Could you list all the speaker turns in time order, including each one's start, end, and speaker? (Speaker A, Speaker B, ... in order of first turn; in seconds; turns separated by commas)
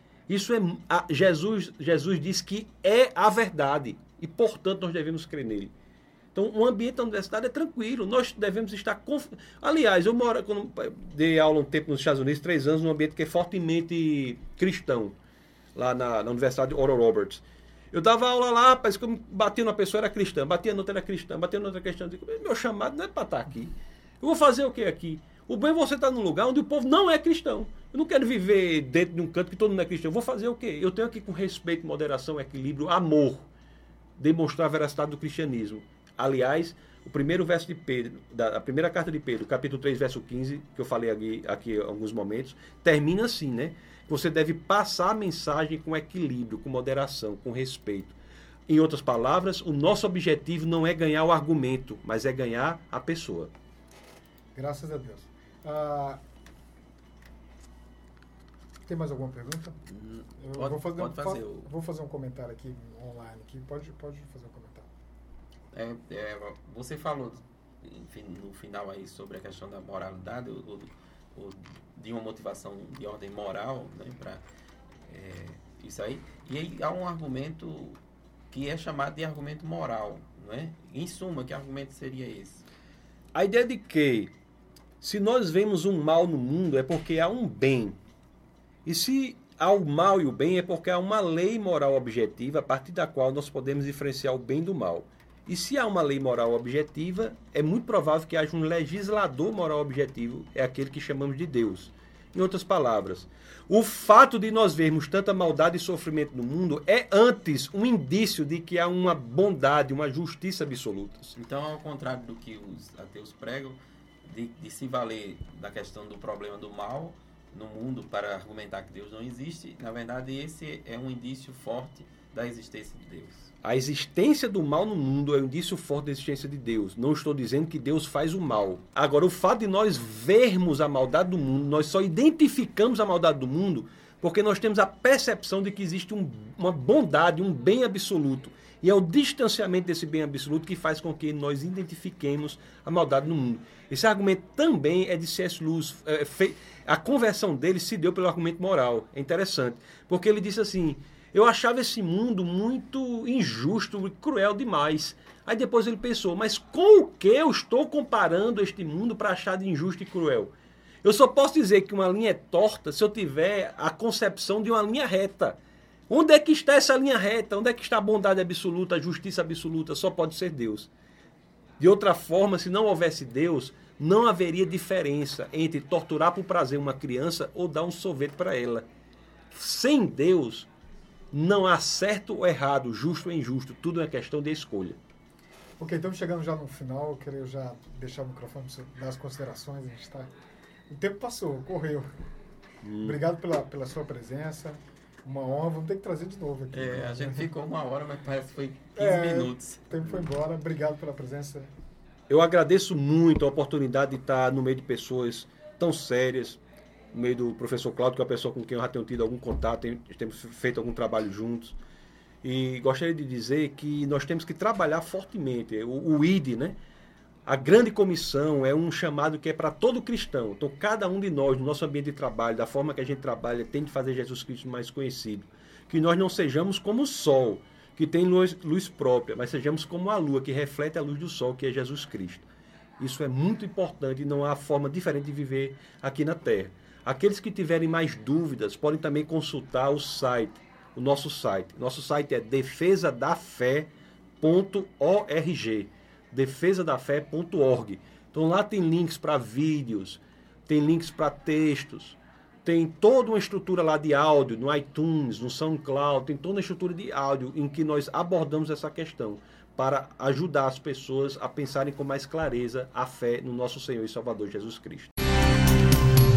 Speaker A: 0.3-5.7, Speaker A: 6.3-15.1, Speaker A: 15.7-33.5, Speaker A: 34.2-48.1, Speaker A: 48.7-53.5, Speaker B: 54.5-56.2, Speaker B: 58.8-59.8, Speaker C: 59.9-61.7, Speaker B: 60.4-64.9, Speaker C: 65.7-74.4, Speaker C: 75.1-78.0, Speaker C: 78.5-82.7, Speaker A: 83.3-84.3, Speaker A: 85.0-88.0, Speaker A: 88.8-111.3, Speaker C: 111.3-123.5, Speaker A: 123.6-160.5, Speaker A: 161.0-170.9, Speaker A: 171.8-178.8, Speaker A: 179.5-180.7, Speaker A: 181.3-185.0, Speaker B: 185.8-190.3, Speaker B: 190.9-192.1, Speaker A: 192.8-193.2, Speaker B: 193.0-197.5, Speaker C: 196.7-199.8, Speaker B: 199.0-201.7, Speaker A: 202.3-206.6, Speaker A: 207.1-211.8, Speaker A: 212.4-216.8, Speaker A: 217.4-232.5, Speaker A: 233.0-243.9, Speaker A: 244.4-265.1